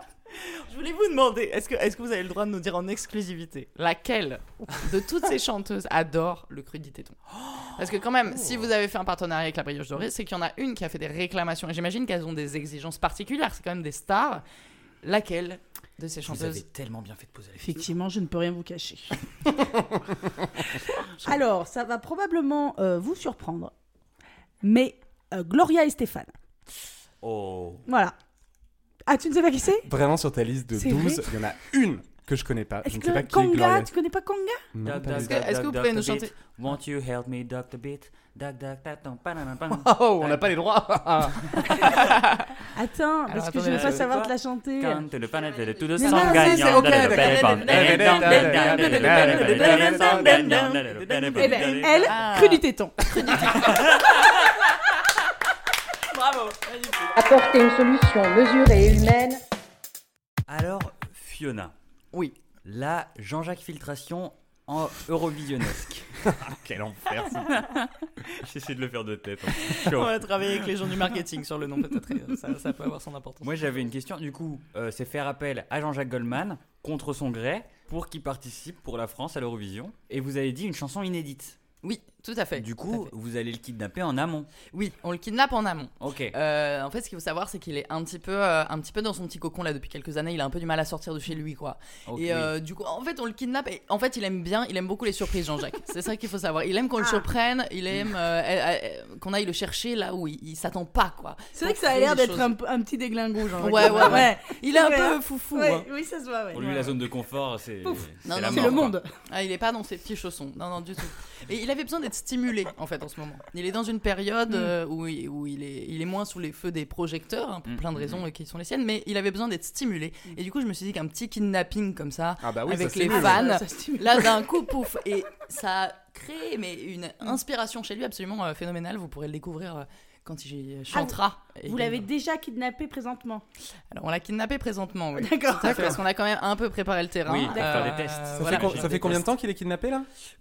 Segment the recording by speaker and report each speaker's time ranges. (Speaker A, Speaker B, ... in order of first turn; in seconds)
Speaker A: 0.7-14.4, 15.0-16.6, 35.1-36.4, 42.0-42.4, 43.3-44.2, 45.4-54.3, 56.1-57.1, 62.1-62.4, 69.6-73.5, 81.8-83.1, 84.7-102.5, 103.5-105.9, 106.5-106.9, 108.2-132.1, 133.9-139.2
Speaker B: 16.3-17.9, 27.2-27.8, 34.8-40.5, 43.7-52.2, 53.7-53.9, 60.5-61.7, 62.6-66.1, 68.3-70.7, 73.4-81.6, 82.6-84.5, 86.0-86.3, 92.1-92.5, 106.5-109.0, 117.7-118.2, 137.3-139.3
Speaker C: 17.6-19.2, 21.2-23.7, 24.6-26.3, 27.9-28.1, 29.1-29.9, 30.8-31.3, 32.8-34.7, 42.7-45.0, 46.0-46.8, 48.6-50.2, 51.4-53.0, 97.0-97.3, 101.5-106.7, 107.8-109.1, 123.1-124.3, 130.9-133.4, 135.2-135.9, 137.5-137.9
Speaker D: 29.9-33.9, 34.7-35.4, 39.7-41.7, 46.0-50.6, 66.2-67.7, 122.4-123.4, 135.7-136.0, 138.3-140.1
Speaker E: 57.2-59.4